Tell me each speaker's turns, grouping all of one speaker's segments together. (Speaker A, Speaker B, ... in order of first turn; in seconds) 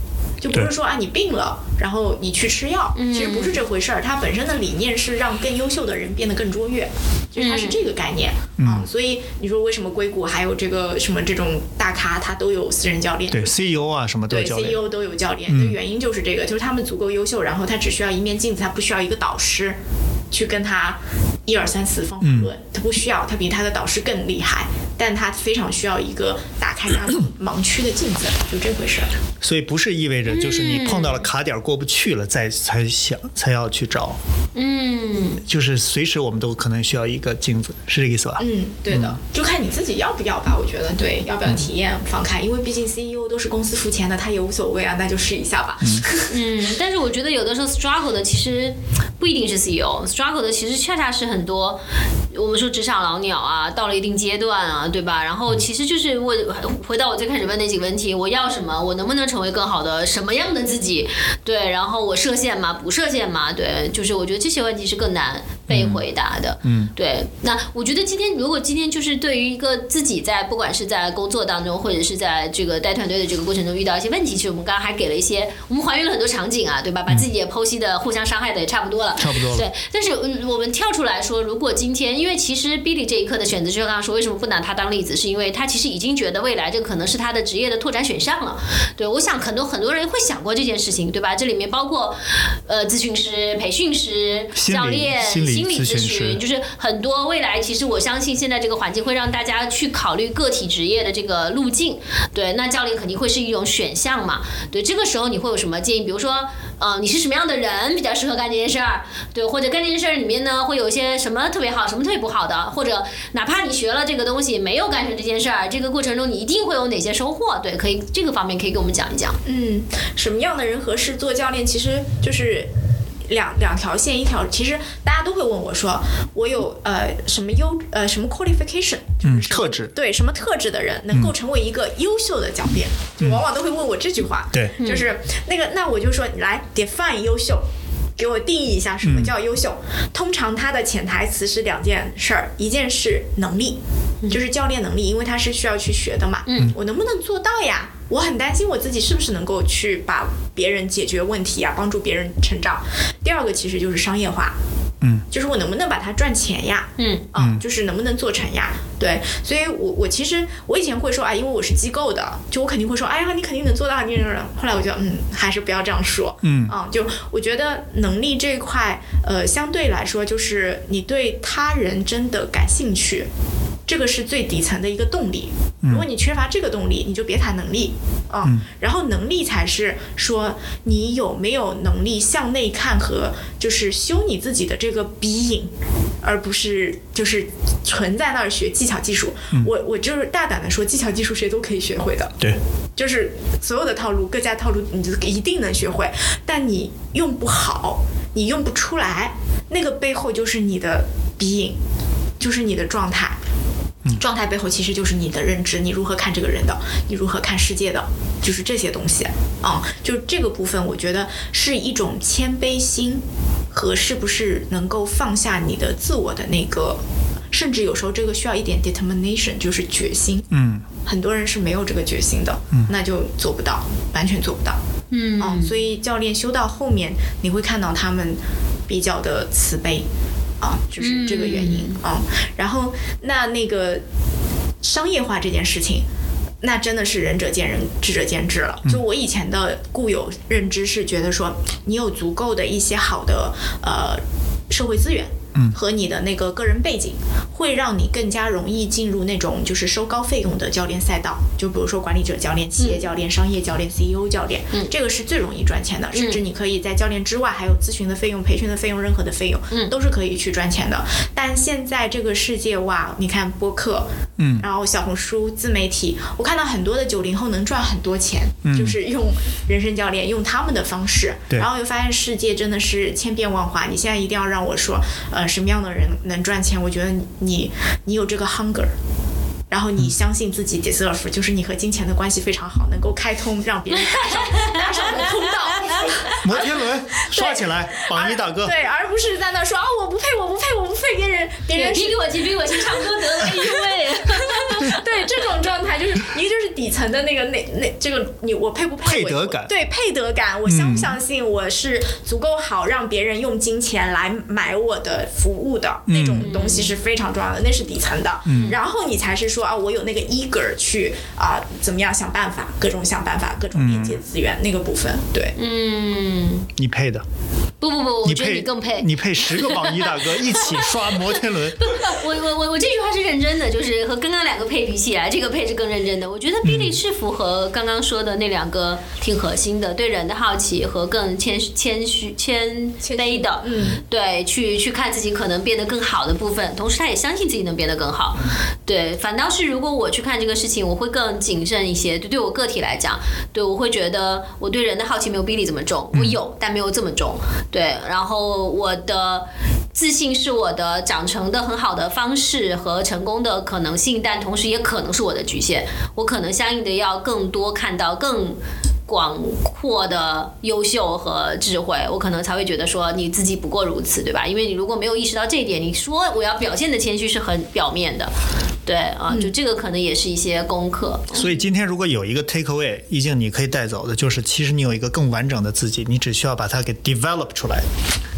Speaker A: 0.4-13.5, 14.3-19.8, 20.3-29.1, 38.4-46.4, 119.5-122.7, 123.3-137.6, 138.2-143.8, 144.3-154.6, 155.3-173.3, 173.9-192.4, 192.9-201.8, 202.4-203.4, 204.1-220.5, 221.1-224.8, 225.4-230.1, 230.6-234.0, 234.8-236.1, 236.6-278.9, 279.7-315.6, 333.0-334.0
Speaker B: 3.0-3.5, 7.4-7.8, 30.3-31.3, 34.5-35.4, 46.3-51.8, 52.3-119.4, 134.8-135.1, 146.4-146.7, 157.0-157.3, 225.1-225.8, 231.0-232.0, 256.1-256.4, 284.1-285.2, 291.7-295.1, 306.4-306.9, 315.6-316.7, 317.8-368.3, 368.9-371.5
Speaker C: 8.6-8.9, 13.3-14.8, 15.5-15.8, 22.2-22.5, 29.4-34.2, 35.4-39.2, 65.7-66.0, 66.6-66.9, 79.2-79.7, 94.5-96.4, 129.2-129.9, 139.0-139.3, 157.4-157.6, 166.4-166.8, 220.5-220.8, 264.4-264.7, 268.6-269.0, 286.4-288.8, 299.1-299.7, 300.6-301.2, 306.1-306.5, 308.5-308.8, 313.7-314.2, 316.8-317.2, 318.2-321.9, 326.6-327.0, 346.1-346.4, 371.3-377.9